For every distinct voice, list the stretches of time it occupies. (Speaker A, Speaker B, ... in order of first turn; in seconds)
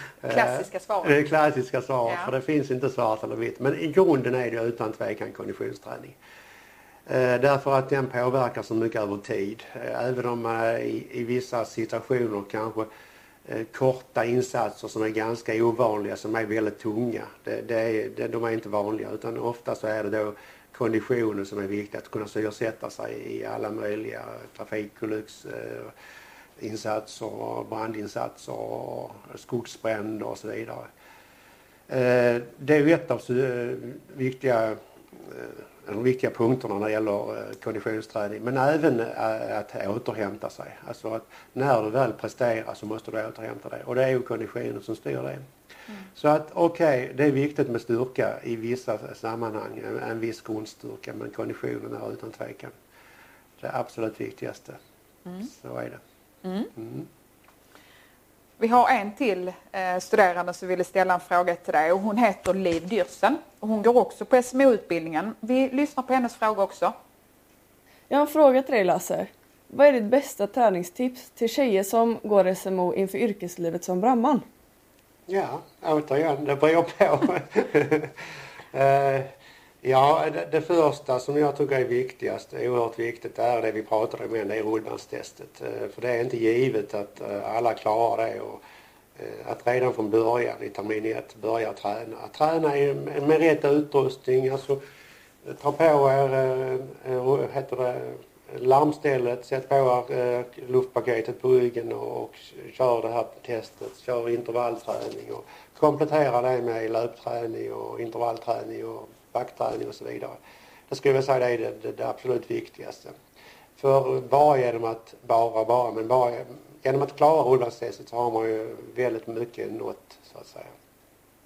Speaker A: 0.2-6.2, 7.1-12.9, 13.4-25.9, 26.6-30.9, 31.9-45.5, 46.1-52.8, 53.6-54.8, 55.5-56.0, 56.8-57.1, 75.3-78.2, 78.7-88.6, 89.2-94.8, 95.4-113.2, 113.8-120.7
Speaker B: 0.2-1.2, 2.1-2.3, 56.4-56.7, 58.6-66.9
Speaker C: 68.1-74.4